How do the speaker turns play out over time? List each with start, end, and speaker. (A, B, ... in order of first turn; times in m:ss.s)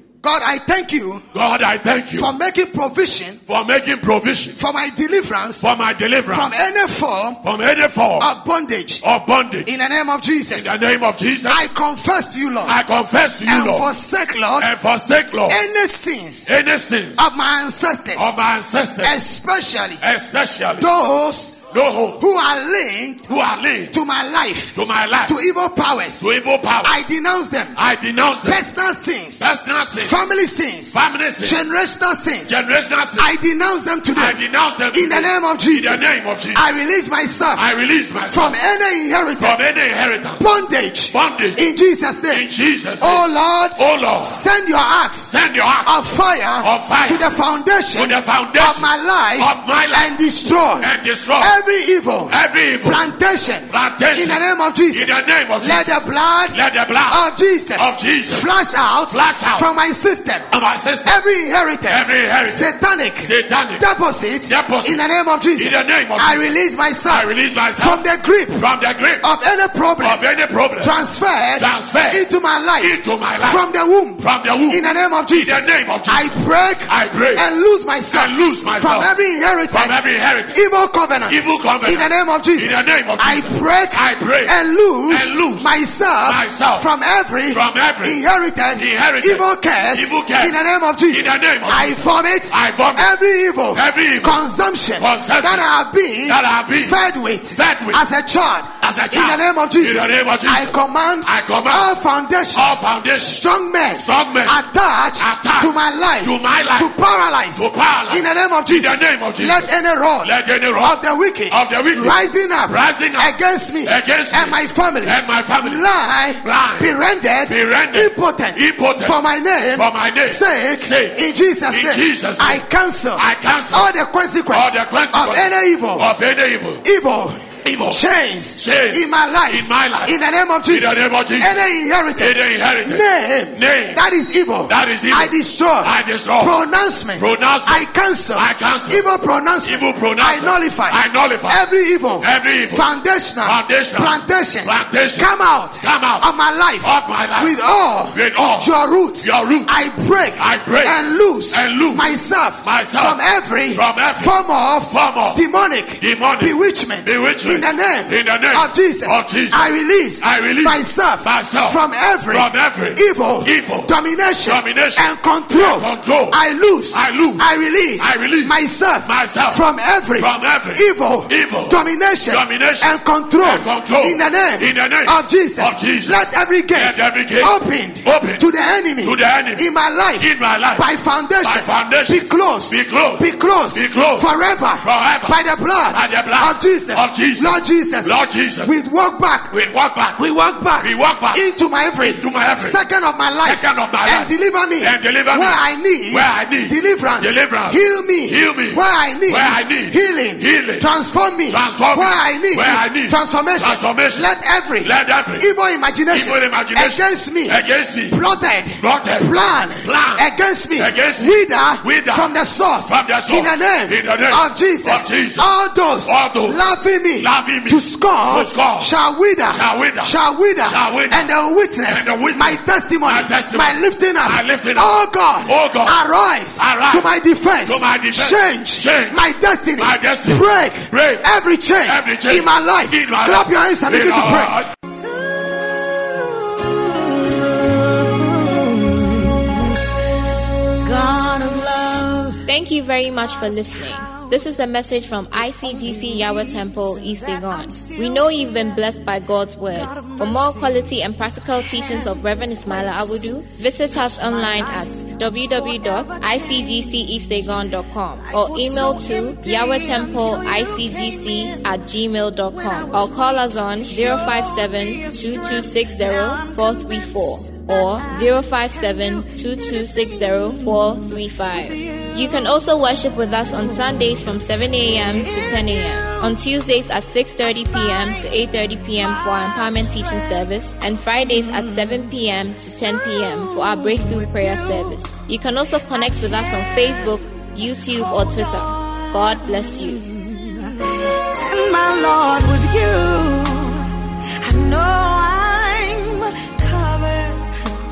0:00.2-0:01.2 A
0:01.3-0:02.3 B
0:02.2-0:03.4 A
0:03.5-0:04.6 B
0:04.6-0:05.7 A
0:05.6-0:06.5 B
0:06.3-0:07.4 A
0:07.4-0:08.3 B
0:08.2-0:09.0 A
0:09.0-0:09.7 B
0:09.6-0:10.7 A
0:10.5-0:11.6 B
0:11.5-0:12.8 A
0:12.6-0:13.9 B
0:13.4-0:14.7 A
0:14.6-0:15.6 B
0:15.5-0:16.5 A
0:16.5-0:17.2 B
0:17.2-0:18.4 A
0:18.2-0:19.2 B
0:19.0-0:20.0 A
0:20.0-0:20.9 B
0:20.8-0:21.6 A
0:21.7-0:22.2 B
0:22.2-0:23.3 A
0:23.3-0:23.9 B
0:23.9-0:26.3 A
0:24.8-0:25.4 B
0:26.2-0:27.0 B
0:26.8-0:27.8 A
0:27.8-0:28.6 B
0:28.4-0:32.6 A
0:29.4-0:30.2 B
0:30.9-0:31.6 B
0:32.5-0:33.3 B
0:33.2-0:37.6 A
0:34.1-0:36.6 B
0:37.6-0:38.6 B
0:38.3-0:39.6 A
0:39.4-0:40.4 B
0:40.4-0:42.5 A
0:41.1-0:41.6 B
0:42.3-0:43.2 B
0:43.0-0:45.3 A
0:43.8-0:44.4 B
0:45.3-0:46.0 B
0:45.8-1:00.5 A
0:46.6-0:47.2 B
0:47.9-0:50.1 B
0:50.8-0:51.6 B
0:52.3-0:53.1 B
0:53.7-0:55.9 B
0:56.5-0:57.2 B
0:57.8-0:58.5 B
0:59.1-0:59.7 B
1:00.5-1:01.2 B
1:01.0-1:08.6 A
1:01.9-1:02.7 B
1:03.2-1:03.8 B
1:04.5-1:05.0 B
1:05.6-1:06.5 B
1:07.1-1:08.0 B
1:08.6-1:09.2 B
1:09.2-1:10.2 A
1:10.0-1:10.9 B
1:10.8-1:20.0 A
1:11.6-1:12.2 B
1:12.8-1:13.6 B
1:14.2-1:17.4 B
1:18.1-1:19.1 B
1:19.7-1:20.6 B
1:20.5-2:06.1 A
1:21.3-1:24.5 B
1:25.1-1:25.7 B
1:26.2-1:26.9 B
1:27.5-1:28.2 B
1:28.8-1:30.5 B
1:31.1-1:33.1 B
1:33.7-1:34.4 B
1:35.0-1:35.6 B
1:36.3-1:37.0 B
1:37.6-1:38.0 B
1:38.8-1:41.9 B
1:42.6-1:43.4 B
1:44.0-1:44.6 B
1:45.2-1:46.9 B
1:47.6-1:49.7 B
1:50.2-1:51.0 B
1:51.5-1:53.3 B
1:53.8-1:55.8 B
1:56.4-1:56.9 B
1:57.5-1:59.2 B
1:59.8-2:01.2 B
2:01.7-2:02.6 B
2:03.2-2:03.9 B
2:04.5-2:06.8 B
2:06.8-3:09.5 A
2:07.6-2:08.0 B
2:08.6-2:10.1 B
2:10.7-2:11.6 B
2:12.2-2:14.0 B
2:14.7-2:16.6 B
2:17.2-2:19.1 B
2:19.6-2:21.6 B
2:22.2-2:22.9 B
2:23.4-2:26.3 B
2:26.8-2:27.6 B
2:28.1-2:28.7 B
2:29.2-2:29.7 B
2:30.4-2:31.0 B
2:31.5-2:32.1 B
2:32.6-2:33.2 B
2:33.7-2:34.4 B
2:34.9-2:35.4 B
2:36.0-2:36.5 B
2:37.0-2:43.9 B
2:44.5-2:46.4 B
2:46.9-2:47.4 B
2:48.0-2:49.6 B
2:50.2-2:58.4 B
2:59.0-2:59.7 B
3:00.2-3:00.9 B
3:01.4-3:04.3 B
3:04.8-3:05.4 B
3:05.9-3:08.7 B
3:09.5-3:10.2 B
3:10.2-3:54.6 A
3:10.8-3:11.4 B
3:12.0-3:12.8 B
3:13.4-3:20.9 B
3:21.5-3:24.3 B
3:24.8-3:25.5 B
3:26.1-3:28.2 B
3:28.8-3:30.2 B
3:30.8-3:32.3 B
3:32.9-3:35.5 B
3:36.1-3:36.6 B
3:37.2-3:38.9 B
3:39.5-3:40.1 B
3:40.7-3:41.3 B
3:41.9-3:45.0 B
3:45.5-3:46.0 B
3:46.6-3:47.1 B
3:47.7-3:49.2 B
3:49.8-3:51.2 B
3:51.9-3:54.7 B
3:55.0-4:02.5 C
4:02.5-4:50.0 D
4:03.2-4:04.6 C
4:05.3-4:36.5 C
4:37.4-4:40.4 C
4:41.2-4:42.2 C
4:42.7-4:45.1 C
4:45.7-4:57.5 C